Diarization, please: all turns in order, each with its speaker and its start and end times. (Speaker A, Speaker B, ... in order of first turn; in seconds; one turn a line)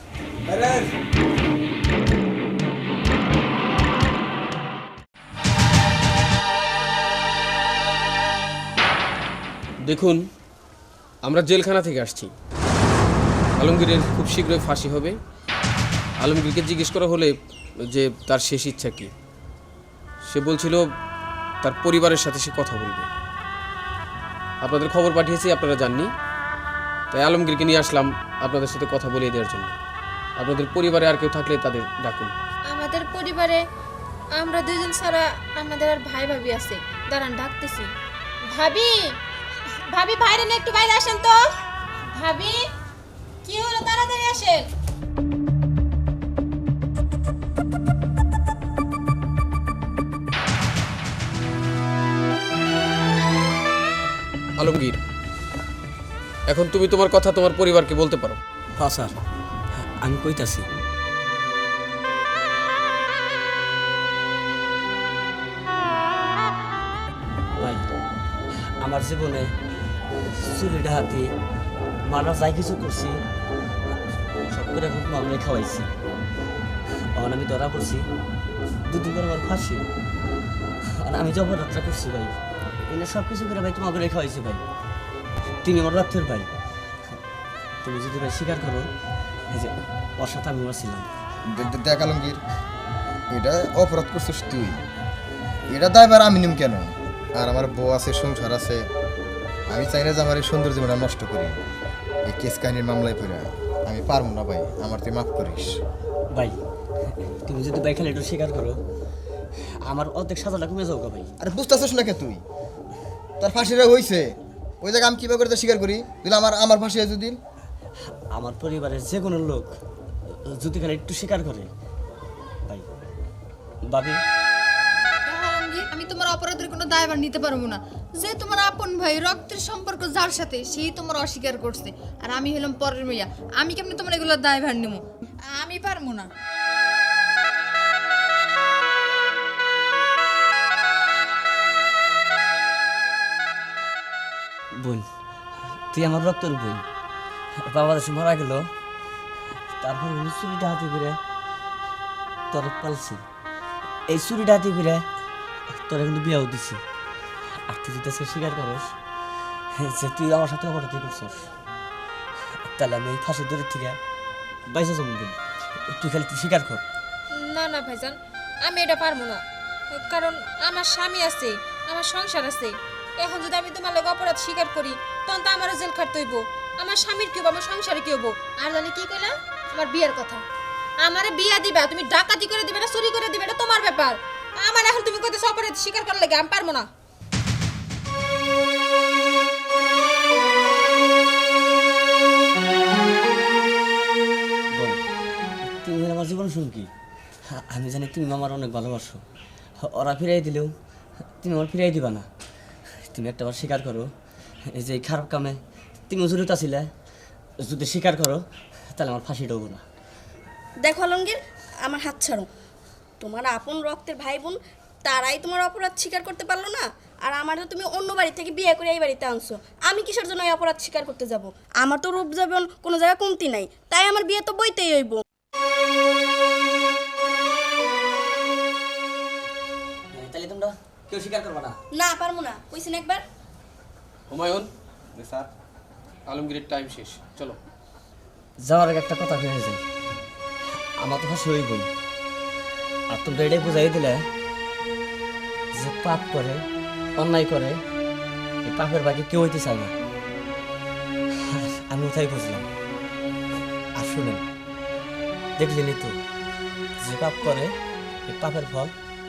Speaker A: 9.8-10.3
Speaker A: 11.2-12.3
Speaker A: 13.6-15.2
Speaker A: 16.2-19.1
Speaker A: 20.3-20.9
Speaker A: 21.6-23.1
Speaker A: 24.6-26.1
Speaker A: 27.1-29.8
Speaker A: 30.4-32.3
Speaker B: 32.7-33.6
Speaker B: 34.3-37.9
Speaker B: 38.5-39.2
Speaker B: 39.9-41.4
Speaker B: 42.1-42.7
Speaker B: 43.4-44.7
Speaker A: 54.6-55.0
Speaker A: 56.5-58.4
Speaker C: 58.8-59.2
Speaker C: 59.7-60.7
Speaker C: 67.6-67.9
Speaker C: 68.5-69.5
Speaker C: 70.1-71.3
Speaker C: 72.0-73.2
Speaker C: 74.5-75.9
Speaker C: 76.9-78.1
Speaker C: 78.8-79.9
Speaker C: 80.8-84.6
Speaker C: 85.6-86.5
Speaker C: 87.8-88.9
Speaker C: 89.5-91.1
Speaker D: 91.5-92.4
Speaker D: 93.3-94.8
Speaker D: 95.7-98.9
Speaker D: 99.7-101.6
Speaker D: 102.3-105.8
Speaker C: 106.3-108.8
Speaker C: 109.5-111.3
Speaker D: 111.4-112.4
Speaker D: 113.4-114.3
Speaker D: 114.8-117.4
Speaker C: 118.1-121.7
Speaker C: 123.8-124.2
Speaker E: 125.3-136.3
Speaker C: 144.8-145.1
Speaker C: 145.9-146.9
Speaker C: 147.6-148.7
Speaker C: 149.6-151.2
Speaker C: 152.5-153.3
Speaker C: 154.1-155.1
Speaker C: 155.7-156.8
Speaker C: 157.4-158.9
Speaker C: 159.7-161.5
Speaker C: 162.5-164.0
Speaker C: 164.7-166.8
Speaker B: 167.3-180.4
Speaker B: 181.0-186.9
Speaker C: 194.7-195.0
Speaker C: 195.7-196.9
Speaker C: 197.5-199.2
Speaker C: 199.8-200.7
Speaker C: 201.4-202.3
Speaker C: 202.9-204.1
Speaker C: 204.7-206.9
Speaker C: 207.6-209.8
Speaker F: 210.8-212.5
Speaker F: 213.2-225.2
Speaker C: 230.1-231.8
Speaker F: 231.9-233.2
Speaker A: 234.3-235.5
Speaker A: 236.3-237.6
Speaker C: 238.6-239.9
Speaker C: 240.8-241.9
Speaker C: 243.1-244.3
Speaker C: 245.7-246.7
Speaker C: 247.2-247.8
Speaker C: 248.7-249.9
Speaker C: 251.3-252.7
Speaker C: 253.9-254.4
Speaker C: 255.6-256.2
Speaker C: 257.0-257.8
Speaker C: 258.3-258.9